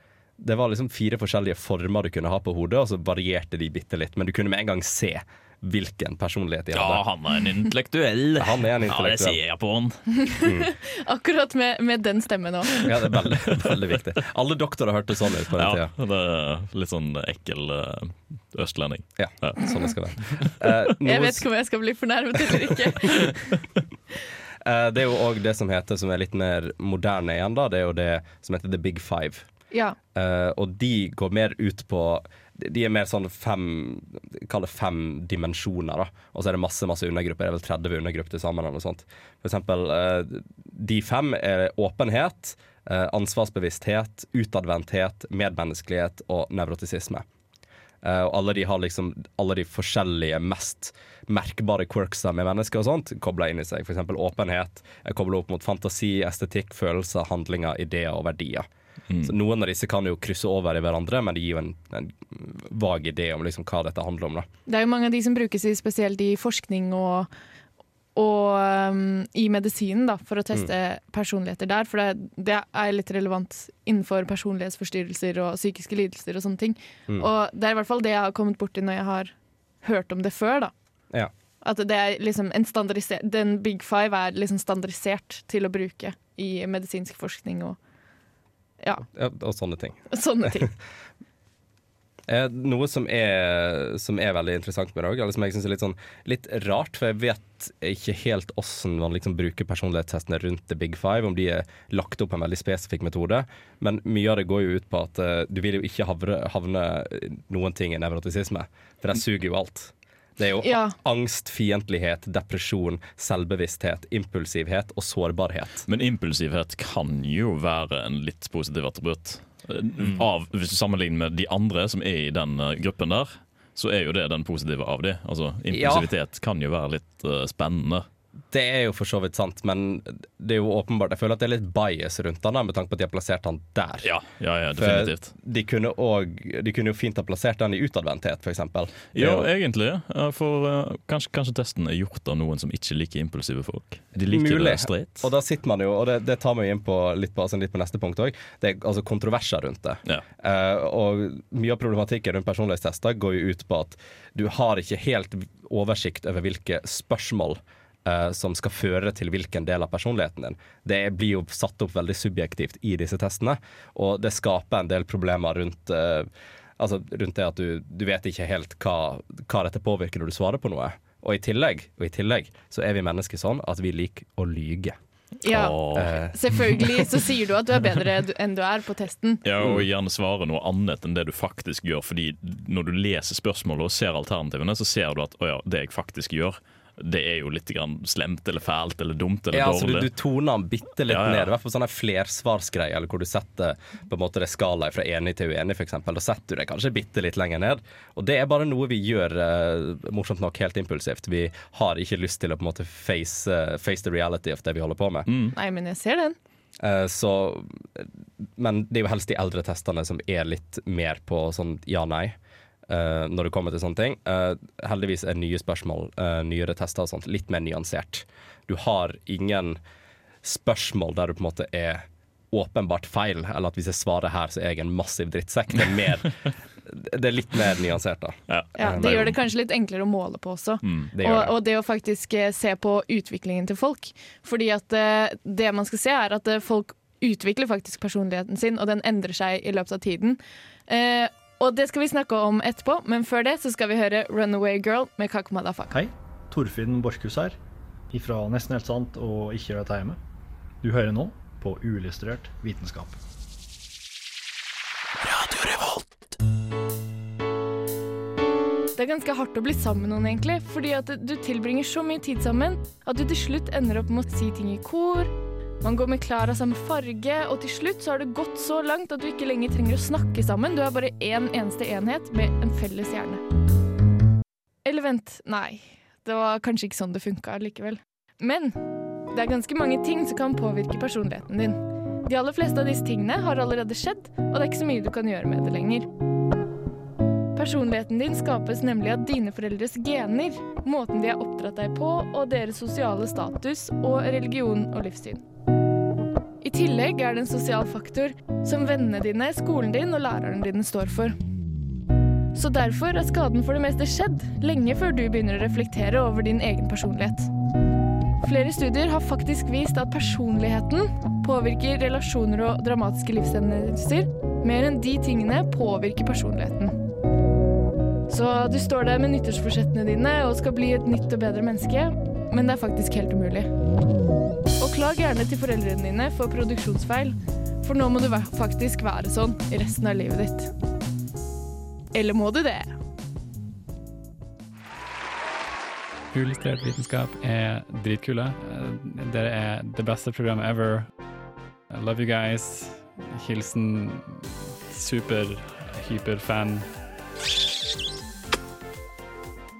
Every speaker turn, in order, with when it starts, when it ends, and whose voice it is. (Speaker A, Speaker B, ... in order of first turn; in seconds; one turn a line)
Speaker A: 0.4-7.0
Speaker B: 6.7-10.2
Speaker A: 8.4-9.4
Speaker C: 10.4-12.8
Speaker A: 12.8-15.9
Speaker B: 15.6-20.5
Speaker A: 19.2-21.5
Speaker C: 21.0-23.3
Speaker A: 24.6-29.5
Speaker C: 29.7-30.0
Speaker A: 30.1-47.2
Speaker A: 48.0-58.7
Speaker B: 59.1-59.4
Speaker A: 59.2-64.5
Speaker C: 64.7-67.3
Speaker C: 68.2-80.7
Speaker C: 81.6-87.8
Speaker A: 89.1-90.1
Speaker C: 90.1-90.7
Speaker A: 92.3-115.9
Speaker C: 110.6-111.0
Speaker B: 115.9-128.1
Speaker A: 125.7-126.1
Speaker A: 128.5-134.1
Speaker B: 134.0-135.3
Speaker A: 134.8-139.5
Speaker B: 139.1-145.3
Speaker A: 144.3-175.0
Speaker C: 175.4-179.4
Speaker B: 175.5-176.1
Speaker A: 175.9-176.8
Speaker B: 179.4-190.1
Speaker A: 189.5-205.3
Speaker B: 191.1-191.5
Speaker B: 205.3-205.5
Speaker C: 205.5-206.3
Speaker A: 206.8-208.1
Speaker A: 208.6-212.4
Speaker A: 212.9-219.8
Speaker A: 220.4-229.3
Speaker B: 228.5-229.3
Speaker C: 228.8-246.0
Speaker B: 230.8-231.1
Speaker A: 231.1-231.6
Speaker D: 245.9-247.6
Speaker D: 248.1-250.2
Speaker D: 250.8-253.2
Speaker B: 255.2-256.1
Speaker C: 258.9-265.3
Speaker C: 265.8-273.4
Speaker C: 274.8-286.1
Speaker C: 287.6-295.4
Speaker C: 296.6-301.4
Speaker C: 302.5-307.5
Speaker C: 308.4-316.9
Speaker C: 318.3-323.7
Speaker C: 324.8-330.7
Speaker C: 332.1-332.9
Speaker E: 336.3-341.1
Speaker E: 341.9-346.9